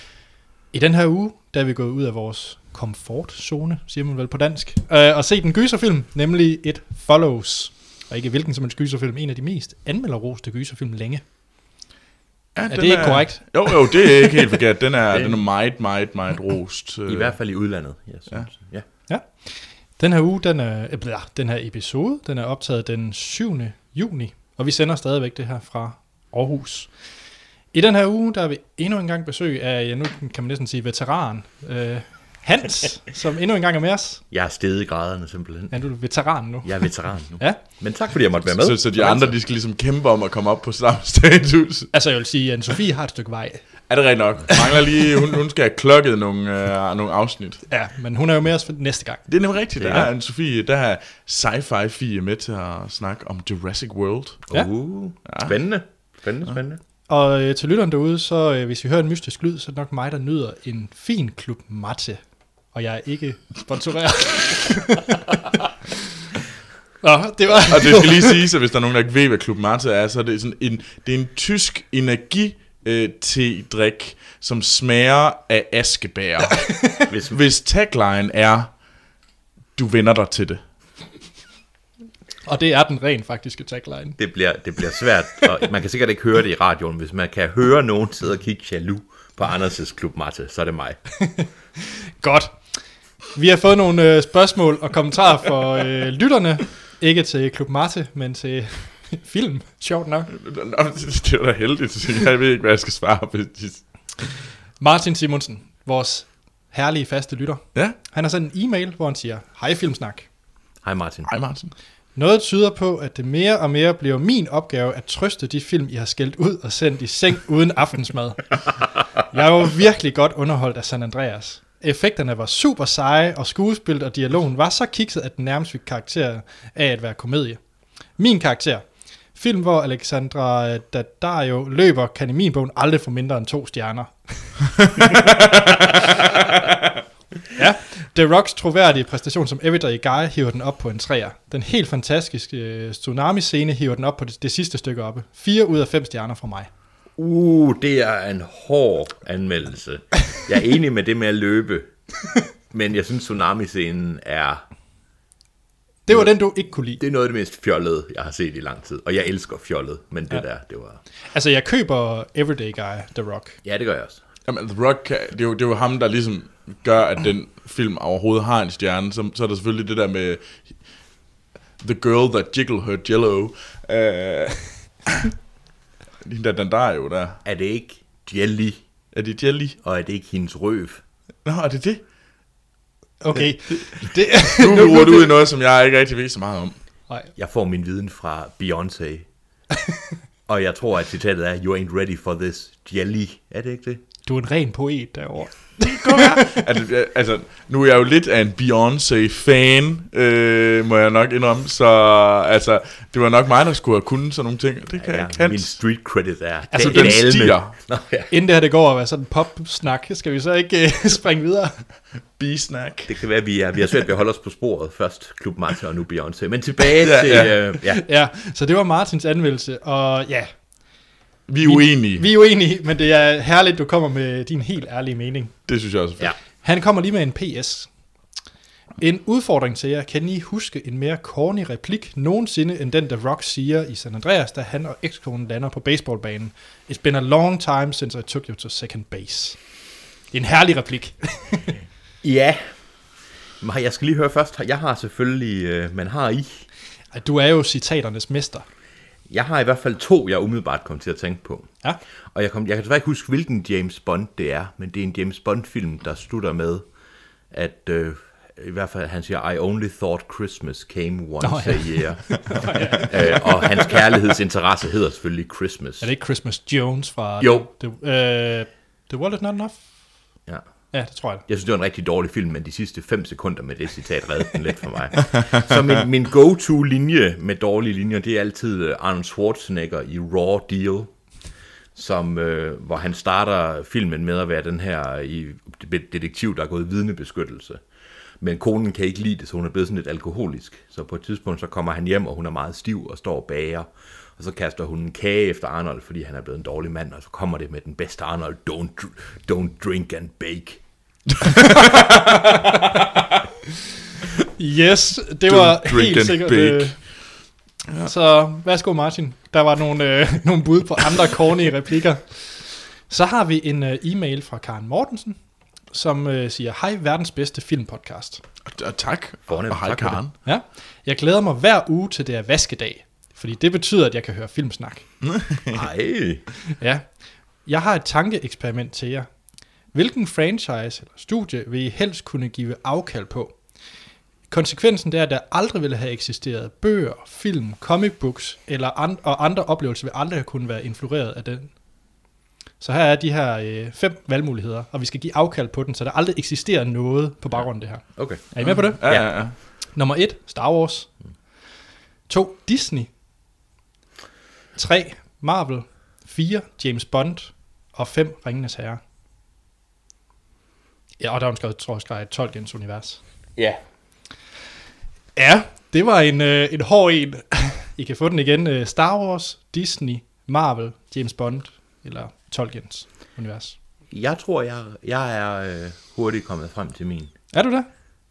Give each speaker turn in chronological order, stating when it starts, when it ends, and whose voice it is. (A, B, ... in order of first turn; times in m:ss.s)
0:00.7-0:11.2 A
0:12.5-0:17.4 B
0:12.7-0:14.0 A
0:17.1-0:18.8 C
0:19.1-0:26.9 A
0:27.7-0:34.2 A
0:34.3-0:35.8 C
0:35.7-0:37.6 A
0:36.6-0:39.3 C
0:38.6-0:41.9 B
0:41.9-0:43.7 A
0:43.9-0:47.6 B
0:47.7-0:49.2 A
0:49.3-0:54.4 B
0:49.8-0:50.1 C
0:54.5-0:56.8 C
0:55.2-0:55.5 B
0:57.1-1:02.2 A
1:02.7-1:05.2 A
1:07.0-1:08.3 A
1:07.7-1:18.7 B
1:16.6-1:17.0 A
1:17.1-1:17.4 C
1:19.8-1:20.6 B
1:22.4-1:24.2 A
1:24.2-1:31.0 C
1:31.2-1:31.5 A
1:32.2-1:32.6 A
1:33.3-1:40.3 A
1:40.3-1:43.8 B
1:44.8-1:50.3 A
1:50.8-1:51.3 C
1:51.2-1:51.7 B
1:52.2-1:58.6 A
1:59.2-2:07.6 A
2:08.2-2:14.8 A
2:17.5-2:26.7 A
2:27.2-2:31.9 C
2:32.7-2:34.6 C
2:36.0-2:37.0 A
2:37.0-2:41.0 C
2:41.3-2:43.6 A
2:43.6-2:44.2 C
2:44.4-2:50.7 B
2:51.8-2:55.3 B
2:56.2-2:57.4 B
2:57.4-2:58.8 C
2:59.1-2:59.8 B
2:59.8-3:01.0 C
3:01.4-3:02.0 B
3:03.2-3:05.3 A
3:04.4-3:06.8 B
3:07.3-3:09.2 C
3:10.5-3:14.0 C
3:14.2-3:16.4 A
3:15.8-3:25.8 B
3:25.0-3:28.3 C
3:26.7-3:27.2 A
3:26.8-3:27.7 B
3:28.3-3:31.8 A
3:32.4-3:33.1 B
3:33.1-3:38.0 C
3:37.0-3:37.6 B
3:37.8-3:40.6 A
3:41.5-3:42.2 B
3:41.6-3:45.5 A
3:45.7-3:46.3 B
3:46.6-3:47.9 A
3:49.0-3:59.6 A
4:00.3-4:01.8 A
4:02.2-4:02.7 C
4:03.6-4:06.6 C
4:07.1-4:08.6 A
4:09.3-4:11.7 C
4:12.3-4:16.9 C
4:17.5-4:26.1 C
4:21.4-4:23.4 A
4:26.0-4:29.8 A
4:27.4-4:27.7 C
4:30.9-4:31.4 A
4:31.5-4:41.1 C
4:41.9-4:47.8 C
4:48.4-5:00.8 C
5:01.7-5:02.1 B
5:04.6-5:07.0 A
5:05.5-5:07.0 B
5:08.0-5:15.4 A
5:15.9-5:18.4 A
5:18.6-5:20.3 B
5:19.5-5:20.2 C
5:20.4-5:25.0 A
5:25.2-5:25.8 B
5:25.7-5:26.4 C
5:26.8-5:27.1 A
5:27.6-5:29.3 A
5:29.9-5:33.6 A
5:34.5-5:41.8 A
5:42.8-5:51.1 A
5:48.1-5:49.3 C
5:48.6-5:49.5 B
5:52.3-5:53.1 A
5:54.8-5:59.0 A
6:01.2-6:03.2 A
6:05.4-6:13.8 A
6:14.1-6:17.3 C
6:17.5-6:17.9 A